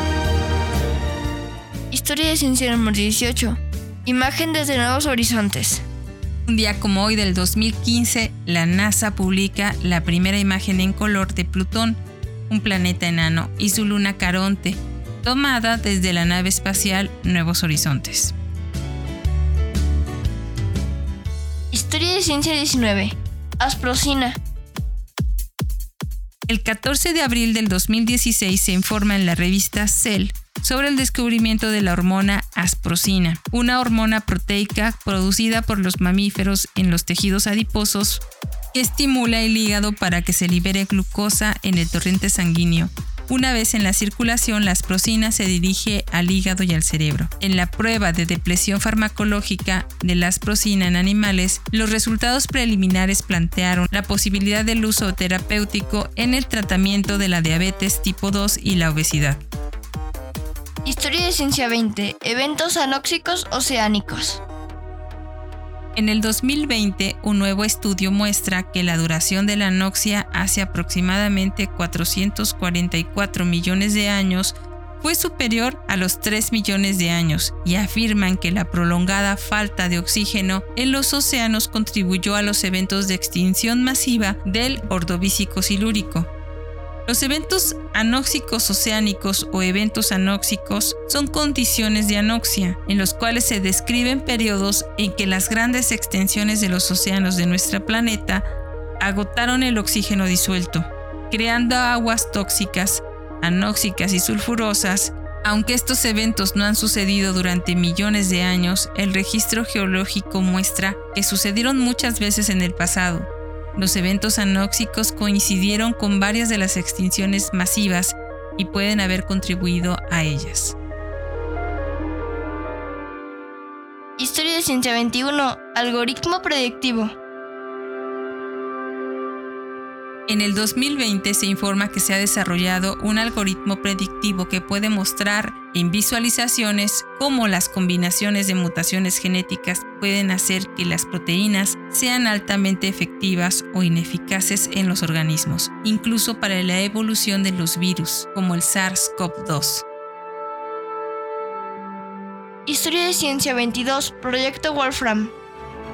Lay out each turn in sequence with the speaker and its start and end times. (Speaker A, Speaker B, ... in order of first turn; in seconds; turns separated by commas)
Speaker A: 1.9-5.8, Speaker B: 6.5-18.4, Speaker A: 21.7-24.4, Speaker B: 26.5-59.4, Speaker A: 60.9-64.4, Speaker B: 66.0-86.3, Speaker B: 87.1-98.5, Speaker B: 99.0-120.8, Speaker A: 124.2-127.1, Speaker B: 130.3-149.8, Speaker A: 152.7-155.3